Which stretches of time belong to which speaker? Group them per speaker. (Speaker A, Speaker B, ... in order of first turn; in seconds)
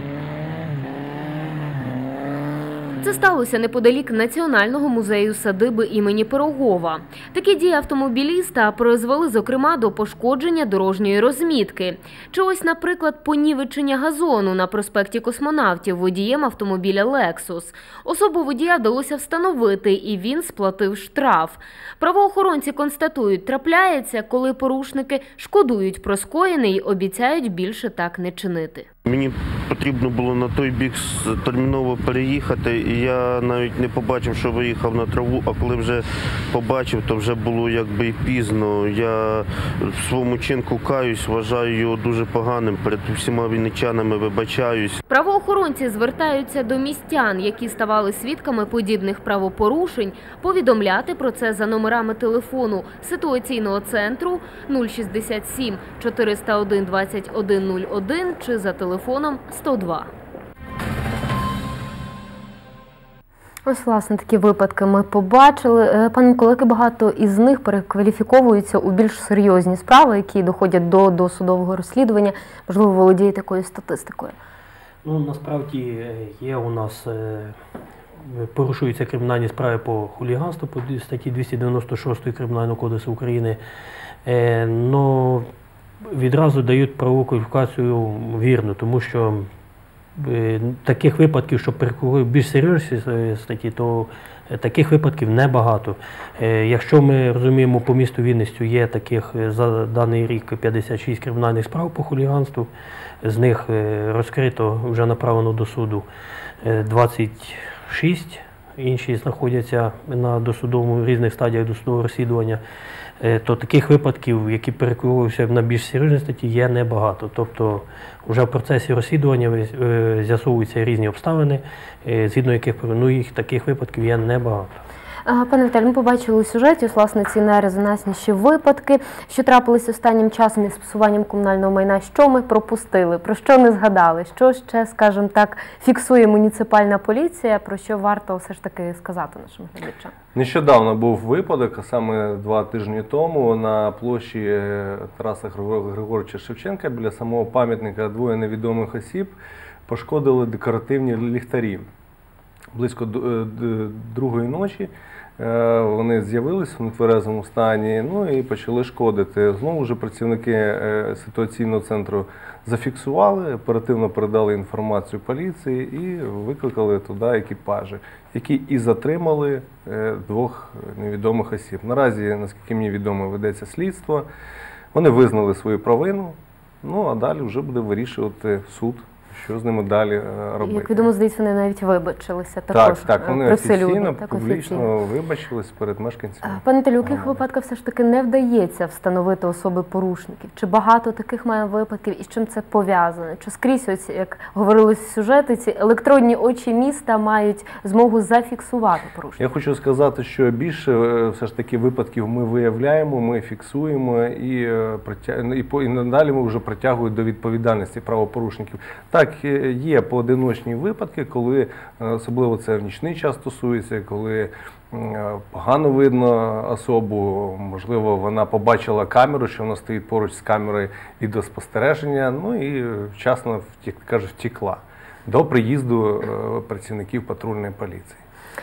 Speaker A: 3.0-28.9, 45.1-60.1, 63.6-74.3, 125.2-140.1, 180.6-184.9, 186.4-199.4
Speaker B: 29.0-45.0
Speaker C: 75.0-77.5, 78.2-83.6, 84.2-85.5, 86.1-89.5, 90.2-102.7, 103.2-106.0, 106.6-112.6, 113.2-124.8
Speaker D: 140.3-149.3, 149.8-151.9, 152.7-174.3, 174.9-181.1, 182.7-187.4, 199.4-228.2